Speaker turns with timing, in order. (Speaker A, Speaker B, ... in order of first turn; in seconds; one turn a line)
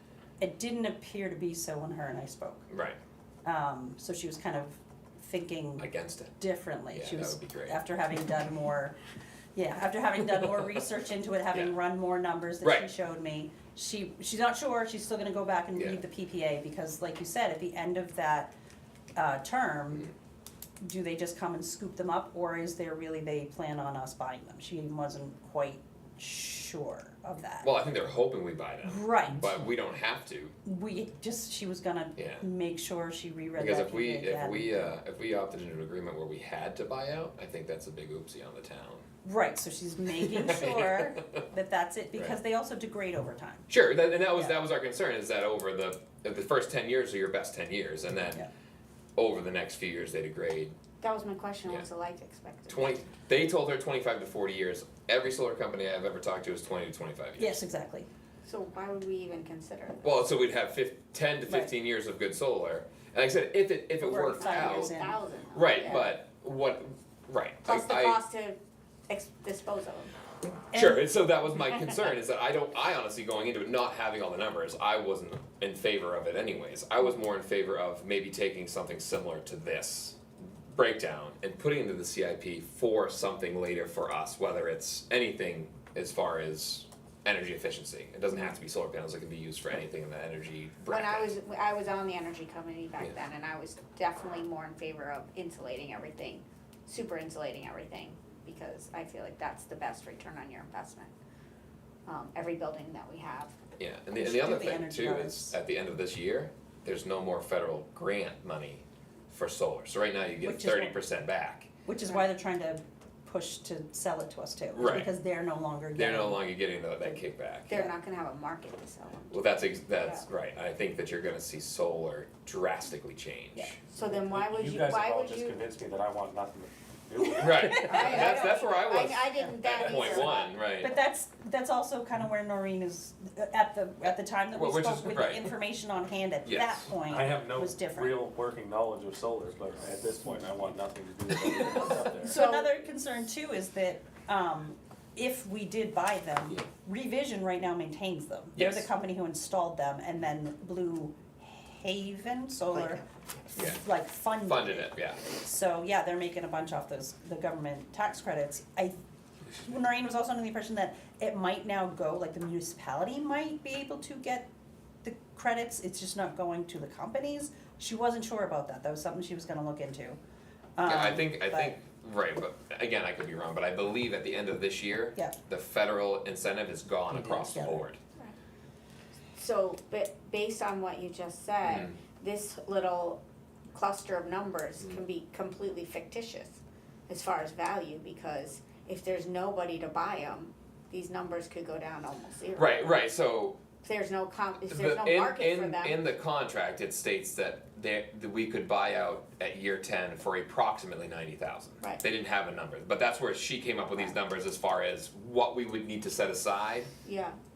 Speaker A: 0.4-2.6
Speaker B: 2.7-3.0
Speaker A: 3.4-5.9
Speaker B: 5.8-6.4
Speaker A: 6.4-8.9
Speaker B: 6.9-7.8
Speaker A: 9.5-18.5
Speaker B: 12.6-12.9
Speaker A: 19.1-20.1
Speaker A: 20.8-27.7
Speaker B: 27.6-30.5
Speaker A: 28.8-29.5
Speaker A: 30.6-34.9
Speaker B: 32.2-32.4
Speaker B: 33.6-39.0
Speaker A: 39.2-43.7
Speaker B: 40.3-41.2
Speaker B: 43.7-48.5
Speaker B: 49.2-50.7
Speaker C: 51.0-53.0
Speaker B: 52.7-57.6
Speaker A: 57.4-58.1
Speaker C: 58.4-60.3
Speaker B: 60.0-64.9
Speaker A: 64.0-65.2
Speaker C: 64.3-66.1
Speaker B: 65.5-68.2
Speaker C: 67.6-68.5
Speaker C: 69.1-70.1
Speaker A: 70.7-71.0
Speaker B: 70.7-80.2
Speaker B: 80.7-91.3
Speaker C: 90.9-101.1
Speaker C: 102.0-103.5
Speaker B: 103.8-111.7
Speaker A: 104.2-105.6
Speaker A: 110.4-111.0
Speaker A: 111.8-116.4
Speaker B: 114.7-115.1
Speaker B: 115.9-117.8
Speaker C: 117.7-120.2
Speaker B: 119.3-123.8
Speaker C: 123.8-125.6
Speaker D: 124.0-128.3
Speaker B: 127.4-130.9
Speaker C: 127.5-130.5
Speaker A: 127.6-128.4
Speaker A: 129.9-130.2
Speaker A: 130.8-138.2
Speaker B: 134.5-135.5
Speaker B: 136.4-136.9
Speaker D: 137.1-142.4
Speaker A: 141.4-159.0
Speaker C: 142.2-142.7
Speaker B: 148.6-148.9
Speaker C: 152.7-153.0
Speaker B: 153.6-153.8
Speaker B: 154.4-155.2
Speaker A: 159.6-164.5
Speaker A: 165.0-170.2
Speaker A: 170.8-171.8
Speaker B: 170.8-178.0
Speaker A: 177.2-177.8
Speaker C: 179.3-183.2
Speaker B: 181.7-181.9
Speaker C: 183.7-192.8
Speaker B: 192.6-193.6
Speaker C: 193.8-196.0
Speaker B: 194.7-206.9
Speaker C: 207.0-207.3